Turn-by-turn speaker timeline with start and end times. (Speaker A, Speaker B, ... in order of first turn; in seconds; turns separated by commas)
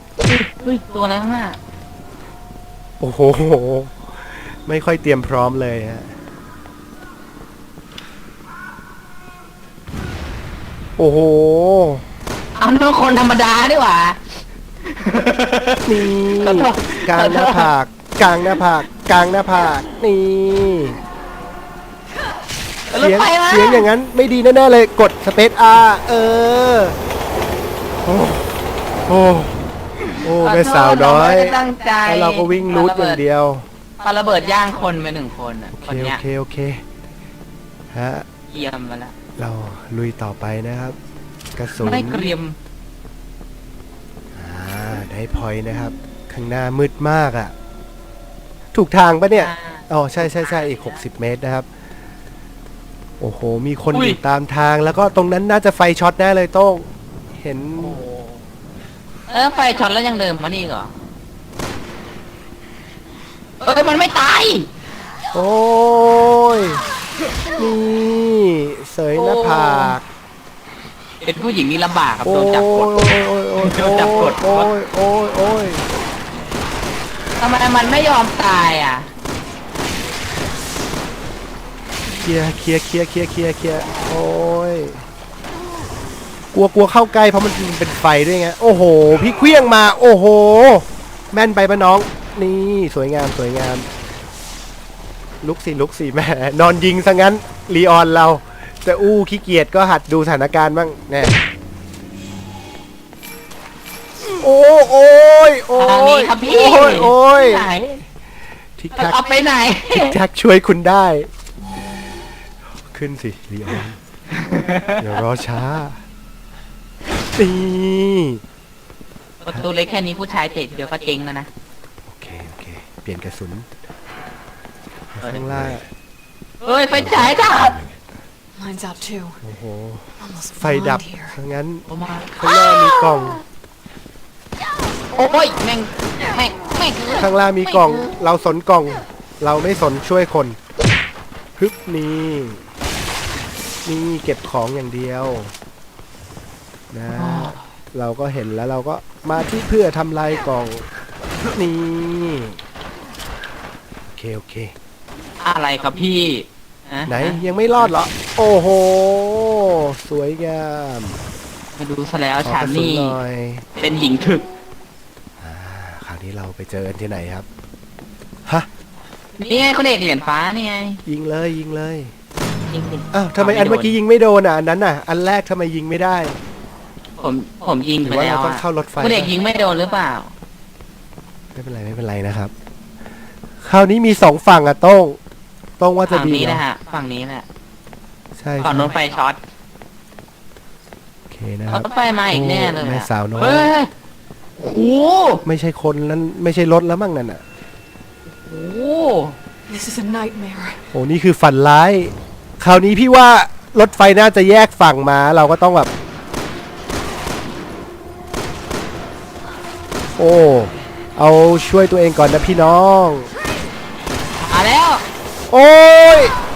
Speaker A: 0.2-1.6, Speaker B: 3.0-6.1, Speaker B: 11.0-12.0, Speaker A: 12.6-14.2, Speaker A: 14.8-17.7, Speaker B: 15.8-21.0, Speaker A: 22.9-23.9, Speaker B: 22.9-27.0, Speaker B: 28.0-29.6, Speaker B: 30.2-33.7, Speaker A: 30.4-33.2, Speaker A: 34.0-36.2, Speaker B: 35.7-36.8, Speaker B: 37.9-38.3, Speaker A: 38.5-39.1, Speaker B: 39.4-41.0, Speaker B: 41.6-42.3, Speaker A: 41.8-42.6, Speaker B: 44.4-47.5, Speaker B: 48.7-51.7, Speaker A: 49.3-51.0, Speaker B: 53.2-58.0, Speaker A: 53.9-54.2, Speaker A: 57.8-58.5, Speaker A: 59.3-60.9, Speaker A: 63.6-64.7, Speaker B: 65.3-66.8, Speaker B: 67.6-70.0, Speaker A: 69.1-70.0, Speaker A: 71.2-74.7, Speaker B: 72.2-75.8, Speaker A: 77.4-79.1, Speaker B: 82.2-85.0, Speaker B: 86.5-93.9, Speaker B: 95.4-101.4, Speaker B: 104.4-107.7, Speaker A: 105.8-108.0, Speaker B: 108.8-109.2, Speaker A: 109.0-110.2, Speaker B: 109.9-111.3, Speaker B: 112.8-114.0, Speaker A: 114.3-115.2, Speaker B: 115.0-116.0, Speaker B: 117.4-118.4, Speaker A: 119.4-121.5, Speaker B: 122.1-123.7, Speaker B: 125.1-125.9, Speaker A: 125.2-125.8, Speaker A: 126.6-127.8, Speaker B: 126.9-128.1, Speaker C: 128.6-129.4, Speaker B: 129.4-133.4, Speaker C: 130.2-131.4, Speaker A: 131.9-133.1, Speaker A: 135.1-138.1, Speaker B: 137.2-140.6, Speaker B: 141.6-142.6, Speaker B: 143.8-145.5, Speaker B: 146.9-150.9, Speaker A: 147.1-147.7, Speaker B: 151.5-152.6, Speaker B: 154.1-154.7, Speaker A: 155.4-157.9, Speaker B: 157.1-161.2, Speaker A: 161.7-163.2, Speaker B: 162.4-163.7, Speaker A: 163.8-164.5, Speaker B: 165.4-167.5, Speaker A: 169.4-171.0, Speaker B: 171.1-172.1, Speaker A: 172.7-173.9, Speaker B: 173.1-176.4, Speaker A: 177.2-180.3, Speaker B: 178.1-179.3, Speaker B: 181.6-182.5, Speaker B: 183.6-185.2, Speaker B: 185.8-186.6, Speaker A: 186.1-187.5, Speaker B: 188.4-188.9, Speaker A: 188.6-189.4, Speaker B: 191.3-193.7, Speaker A: 191.7-193.9, Speaker A: 194.6-195.4, Speaker B: 195.4-197.4, Speaker A: 198.4-199.4, Speaker C: 199.7-200.8, Speaker B: 200.9-205.9, Speaker B: 210.2-213.3, Speaker A: 214.4-215.0, Speaker B: 215.5-216.3